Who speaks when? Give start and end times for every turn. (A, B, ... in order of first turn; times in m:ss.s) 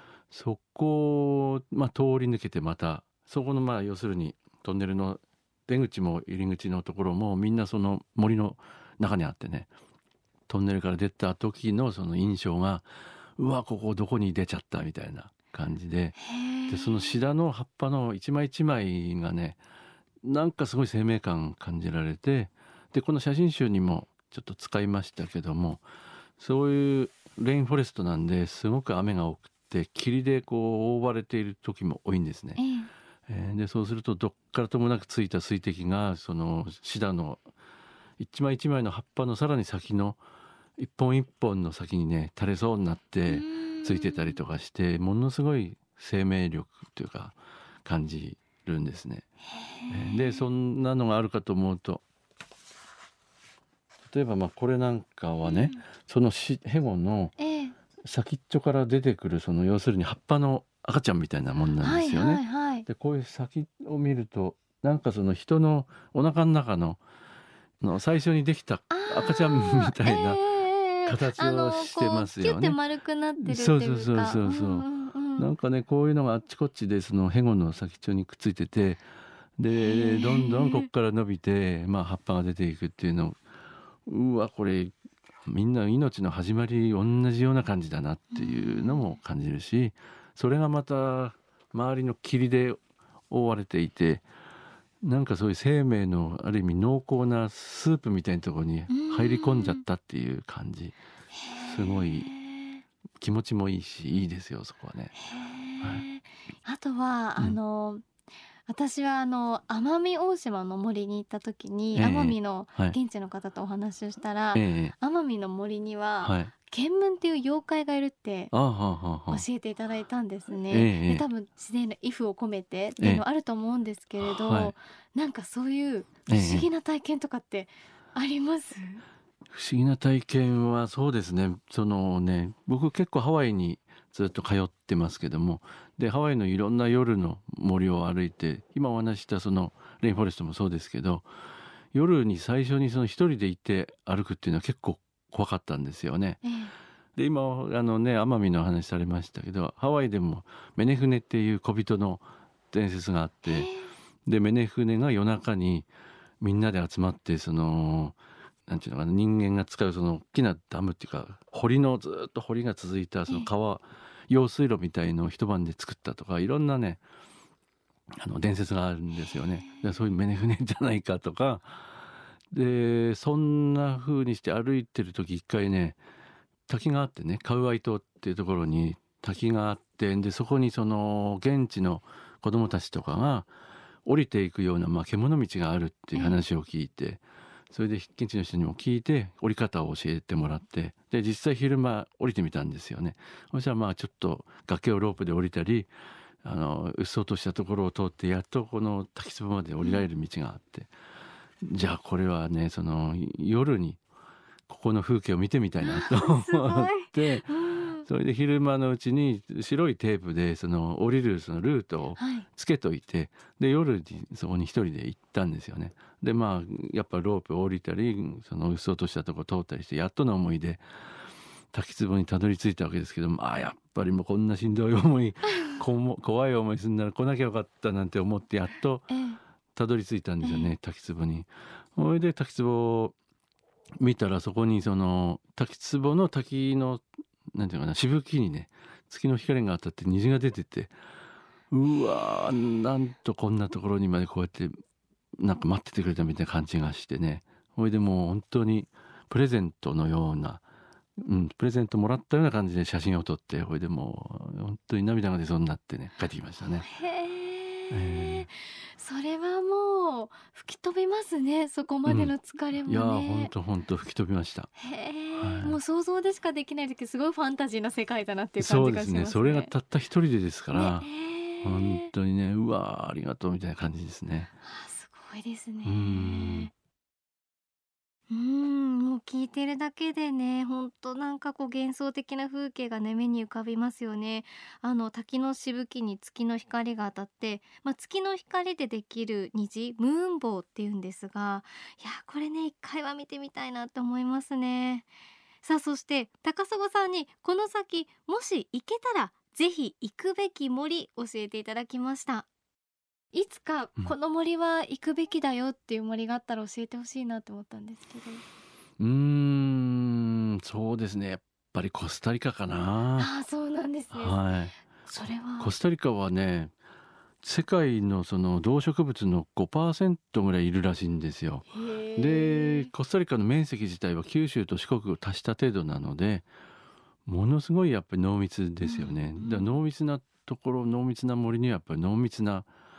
0:00.3-0:09.7 A
0:10.5-0:16.2 A
0:16.2-0:17.2 B
0:16.7-0:19.6 A
0:20.2-0:25.8 A
0:26.4-0:32.6 A
0:32.6-0:32.9 B
0:33.3-0:37.5 A
0:38.2-0:40.2 A
0:40.8-0:49.2 A
0:43.3-0:44.4 B
0:49.5-0:50.4 B
0:49.9-0:52.0 A
0:54.1-0:57.4 A
0:55.4-0:55.8 B
0:57.4-0:57.8 B
0:58.0-1:07.0 A
1:01.8-1:02.9 B
1:07.8-1:10.4 A
1:08.9-1:15.5 B
1:11.1-1:12.8 A
1:13.4-1:19.0 A
1:19.6-1:23.4 A
1:19.7-1:20.9 B
1:24.1-1:24.9 A
1:25.4-1:34.2 A
1:28.3-1:29.2 B
1:35.0-1:41.0 A
1:38.9-1:39.8 B
1:41.3-1:42.8 B
1:41.6-1:42.3 A
1:43.2-1:45.1 A
1:45.1-1:48.0 B
1:48.7-1:58.5 B
1:51.9-1:53.0 A
1:54.6-1:54.9 A
1:56.2-1:56.5 A
1:58.5-1:59.4 A
1:59.3-2:09.0 B
2:00.7-2:01.2 A
2:03.0-2:03.2 A
2:04.2-2:04.7 A
2:06.3-2:06.7 A
2:09.5-2:21.3 A
2:21.9-2:26.4 A
2:26.4-2:26.7 B
2:27.2-2:33.7 A
2:33.4-2:33.9 B
2:34.2-2:35.9 A
2:36.4-2:38.2 A
2:38.7-2:47.0 A
2:48.2-2:51.8 A
2:49.2-2:50.0 B
2:52.5-2:56.0 A
2:56.7-3:03.5 A
3:04.0-3:15.9 A
3:16.4-3:20.9 A
3:19.8-3:20.1 B
3:21.6-3:24.0 A
3:24.7-3:27.5 A
3:25.8-3:28.1 B
3:28.0-3:40.8 A
3:32.2-3:32.5 B
3:41.7-3:49.1 A
3:49.1-3:49.4 B
3:49.8-3:53.2 A
3:50.4-3:50.7 B
3:54.0-4:00.9 A
4:01.7-4:04.8 A
4:05.4-4:10.6 A
4:11.2-4:16.9 A
4:16.8-4:23.5 B
4:17.9-4:18.5 A
4:22.1-4:22.3 A
4:22.9-4:24.7 A
4:24.8-4:29.7 B
4:25.4-4:25.8 A
4:28.6-4:31.1 A
4:30.7-4:32.1 B
4:31.6-4:34.5 A
4:34.6-4:36.7 B
4:35.8-4:36.7 A
4:38.3-4:55.1 B
4:55.6-5:02.5 B
5:03.3-5:08.4 B
5:09.0-5:13.3 A
5:13.2-5:14.4 B
5:14.1-5:14.8 A
5:15.0-5:15.7 B
5:15.6-5:16.7 A
5:17.4-5:26.5 A
5:21.7-5:22.9 B
5:27.3-5:32.7 A
5:28.8-5:29.7 B